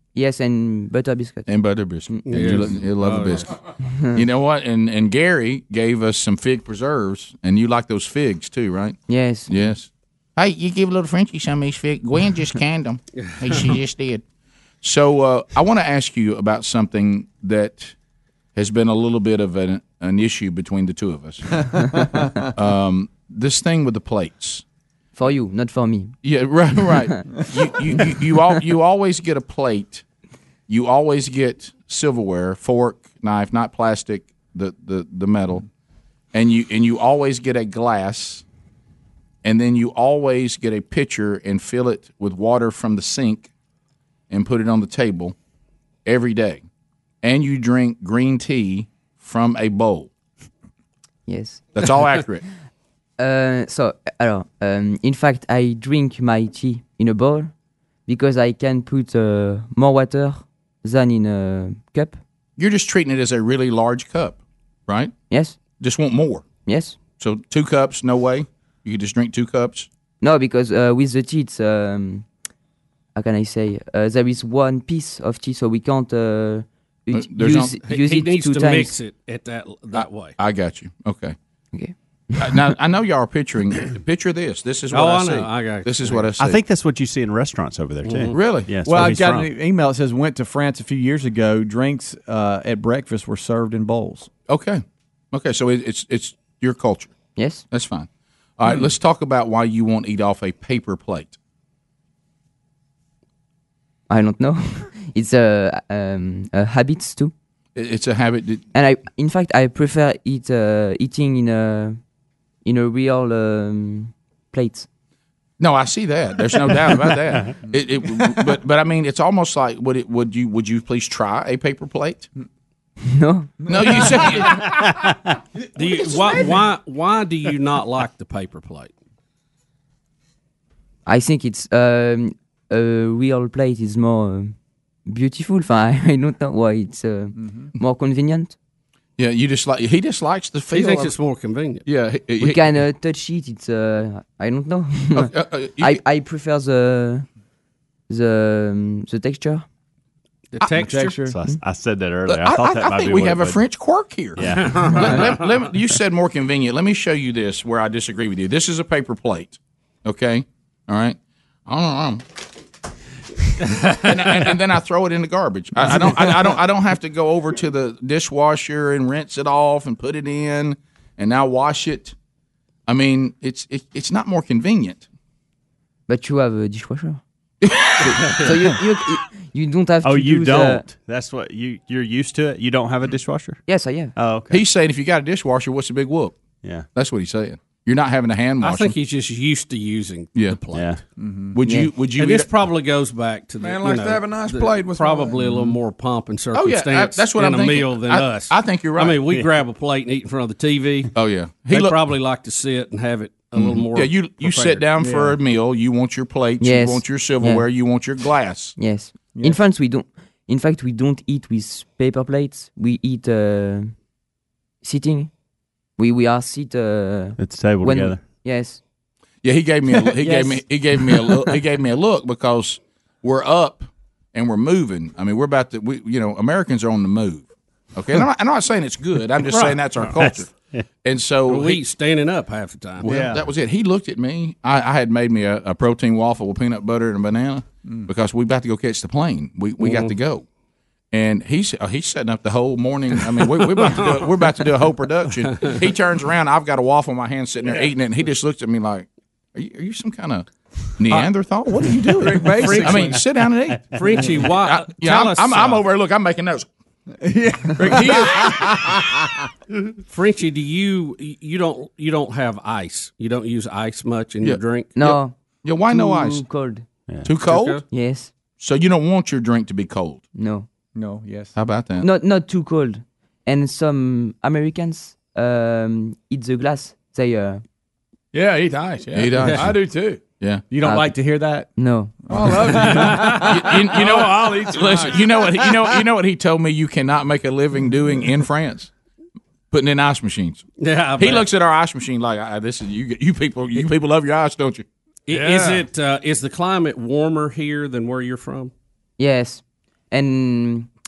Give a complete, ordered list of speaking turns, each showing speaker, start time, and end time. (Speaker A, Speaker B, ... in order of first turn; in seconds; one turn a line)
Speaker A: 0.1-1.5
Speaker B: 1.5-3.5
Speaker A: 2.1-2.6
Speaker C: 2.2-3.5
Speaker A: 3.8-4.2
Speaker B: 4.1-14.2
Speaker A: 9.1-9.5
Speaker C: 13.2-13.8
Speaker B: 14.8-17.9
Speaker B: 18.5-21.7
Speaker B: 22.5-24.6
Speaker A: 25.1-26.2
Speaker B: 26.2-30.0
Speaker A: 27.1-27.4
Speaker B: 30.7-35.7
Speaker B: 36.3-38.4
Speaker B: 39.4-43.5
Speaker B: 44.3-45.3
Speaker B: 46.0-46.6
Speaker B: 47.2-50.1
Speaker A: 51.3-51.8
Speaker B: 51.7-52.4
Speaker A: 53.2-57.5
Speaker A: 58.0-62.2
Speaker B: 62.6-65.1
Speaker A: 65.3-65.6
Speaker B: 65.7-66.5
Speaker A: 66.6-67.0
Speaker B: 67.1-69.9
Speaker A: 70.2-72.3
Speaker A: 73.2-79.0
Speaker B: 77.1-77.8
Speaker C: 77.8-80.4
Speaker B: 79.9-81.3
Speaker A: 81.7-82.6
Speaker B: 82.4-86.6
Speaker C: 84.9-86.3
Speaker D: 86.4-89.5
Speaker C: 88.0-88.4
Speaker B: 88.3-88.7
Speaker E: 88.8-94.3
Speaker B: 94.5-97.2
Speaker A: 97.3-97.7
Speaker B: 97.7-101.3
Speaker A: 104.1-107.3
Speaker B: 107.8-108.6
Speaker A: 108.7-112.0
Speaker A: 112.6-114.9
Speaker B: 115.6-122.3
Speaker A: 123.0-124.1
Speaker B: 123.7-124.7
Speaker C: 125.7-128.9
Speaker A: 131.1-138.5
Speaker E: 137.4-137.7
Speaker B: 139.2-141.2
Speaker C: 140.7-141.8
Speaker B: 141.8-142.7
Speaker A: 142.4-147.2
Speaker B: 145.1-146.0
Speaker A: 148.1-149.7
Speaker C: 150.5-151.2
Speaker B: 150.6-150.8
Speaker E: 150.7-151.4
Speaker D: 151.1-153.6
Speaker B: 152.2-162.2
Speaker D: 154.4-155.3
Speaker C: 154.4-155.6
Speaker B: 164.0-172.1
Speaker B: 172.9-175.0
Speaker A: 176.1-177.2
Speaker B: 177.6-178.4
Speaker A: 178.0-180.8
Speaker C: 178.2-178.5
Speaker D: 180.0-183.6
Speaker A: 183.7-184.1
Speaker D: 184.1-184.6
Speaker B: 184.5-186.4
Speaker B: 186.9-188.9
Speaker C: 188.6-191.0
Speaker B: 190.3-190.6
Speaker D: 190.7-191.0
Speaker E: 191.2-191.6
Speaker B: 191.5-192.5
Speaker A: 191.6-192.0
Speaker C: 191.9-204.9
Speaker F: 193.6-195.6
Speaker B: 196.5-199.3
Speaker B: 201.1-202.0
Speaker B: 203.5-208.8
Speaker E: 205.0-205.4
Speaker A: 206.6-207.7
Speaker A: 208.8-213.9
Speaker E: 209.3-209.6
Speaker A: 214.8-215.3
Speaker A: 216.0-218.8
Speaker D: 217.4-218.2
Speaker B: 219.4-230.5
Speaker A: 220.2-220.8
Speaker C: 229.4-230.3
Speaker B: 231.0-231.8
Speaker C: 231.5-233.3
Speaker B: 233.0-240.4
Speaker E: 233.1-233.4
Speaker C: 239.8-240.1
Speaker B: 241.1-256.7
Speaker C: 243.5-244.4
Speaker F: 252.2-253.2
Speaker E: 252.2-253.2
Speaker C: 253.8-255.8
Speaker E: 257.2-259.0
Speaker F: 257.8-258.4
Speaker B: 257.9-258.5
Speaker C: 260.1-264.9
Speaker B: 264.4-266.4
Speaker A: 264.9-266.9
Speaker B: 267.2-267.8
Speaker C: 267.3-267.8
Speaker A: 267.9-268.3
Speaker B: 268.6-270.2
Speaker A: 270.3-270.7
Speaker E: 270.9-271.5
Speaker B: 271.5-272.1
Speaker A: 272.0-277.6
Speaker F: 278.3-280.2
Speaker B: 279.1-279.8
Speaker C: 279.4-279.7
Speaker B: 280.4-280.6
Speaker E: 280.7-281.7
Speaker A: 280.8-281.2
Speaker A: 281.7-282.2
Speaker E: 282.3-283.7
Speaker F: 282.3-285.3
Speaker C: 282.8-283.4
Speaker B: 283.5-288.9
Speaker B: 289.7-290.6
Speaker C: 290.8-291.5
Speaker B: 291.2-294.8
Speaker C: 295.3-298.7
Speaker F: 295.3-295.9
Speaker A: 299.2-300.9